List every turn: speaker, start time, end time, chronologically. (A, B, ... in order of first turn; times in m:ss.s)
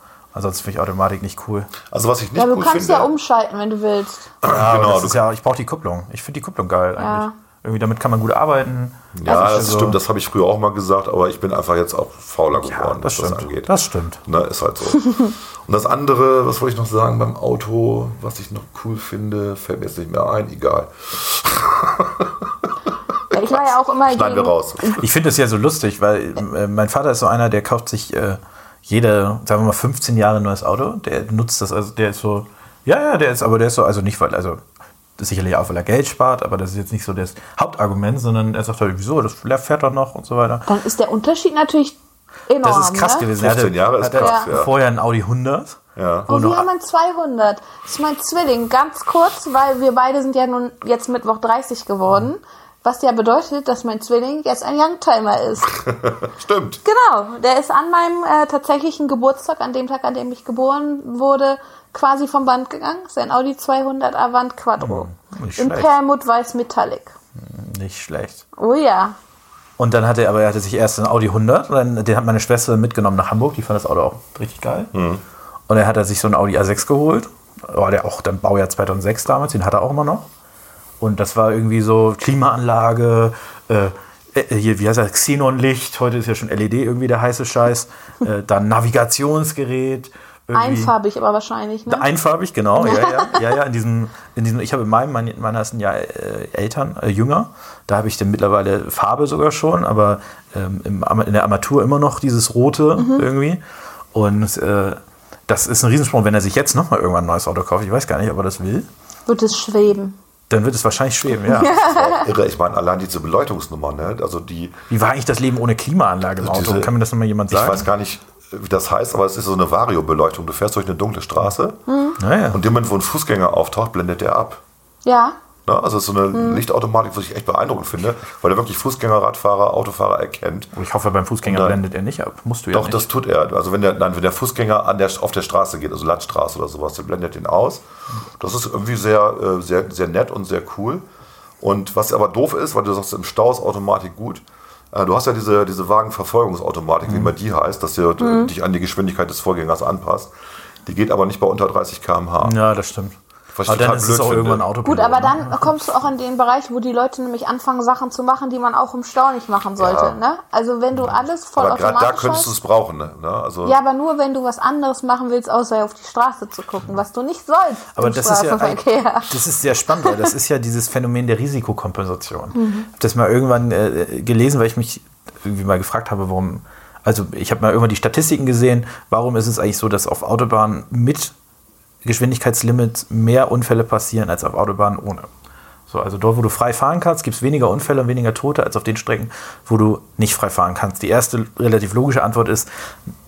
0:00.3-0:01.7 A
0:01.9-0:03.1 B
0:02.4-0:04.4 C
0:04.4-0:05.2 B
0:04.4-0:10.0 A
0:07.0-0:07.3 C
0:09.2-0:13.7 B
0:12.6-0:14.2 A
0:14.2-0:22.5 B
0:23.3-0:24.9 C
0:23.3-0:25.0 B
0:25.0-0:34.6 A
0:35.2-0:40.7 A
0:40.7-0:43.3 C
0:42.6-0:46.7 A
0:43.4-0:44.7 B
0:44.2-0:44.5 C
0:46.0-0:46.3 B
0:46.3-0:55.7 C
0:55.8-0:56.8 B
0:56.8-1:07.1 C
1:04.8-1:05.9 A
1:07.4-1:08.4 A
1:08.6-1:09.2 C
1:09.8-1:14.9 A
1:14.9-1:15.2 B
1:15.7-1:20.2 A
1:21.0-1:31.0 A
1:30.5-1:32.1 C
1:31.9-1:43.6 A
1:32.8-1:33.4 C
1:43.0-1:43.3 C
1:44.1-1:48.9 A
1:49.3-1:50.2 C
1:50.5-1:51.8 A
1:51.4-1:52.3 C
1:51.8-1:54.8 B
1:54.9-1:57.9 A
1:56.4-1:56.9 B
1:57.5-2:01.8 B
2:01.9-2:02.2 C
2:02.2-2:02.6 A
2:02.5-2:04.6 B
2:05.0-2:05.4 C
2:05.6-2:10.7 B
2:06.3-2:06.6 C
2:10.8-2:13.0 A
2:11.4-2:11.8 B
2:12.7-2:17.8 B
2:18.4-2:21.0 B
2:21.6-2:30.3 B
2:27.1-2:27.3 A
2:28.2-2:28.5 C
2:30.8-2:32.6 B
2:32.4-2:35.7 A
2:33.5-2:34.6 B
2:34.8-2:42.5 C
2:39.8-2:40.2 B
2:41.6-2:43.8 B
2:43.6-2:49.4 C
2:48.0-3:01.3 A
2:49.9-2:50.3 C
2:52.5-2:52.9 C
3:02.0-3:05.3 A
3:05.9-3:12.7 A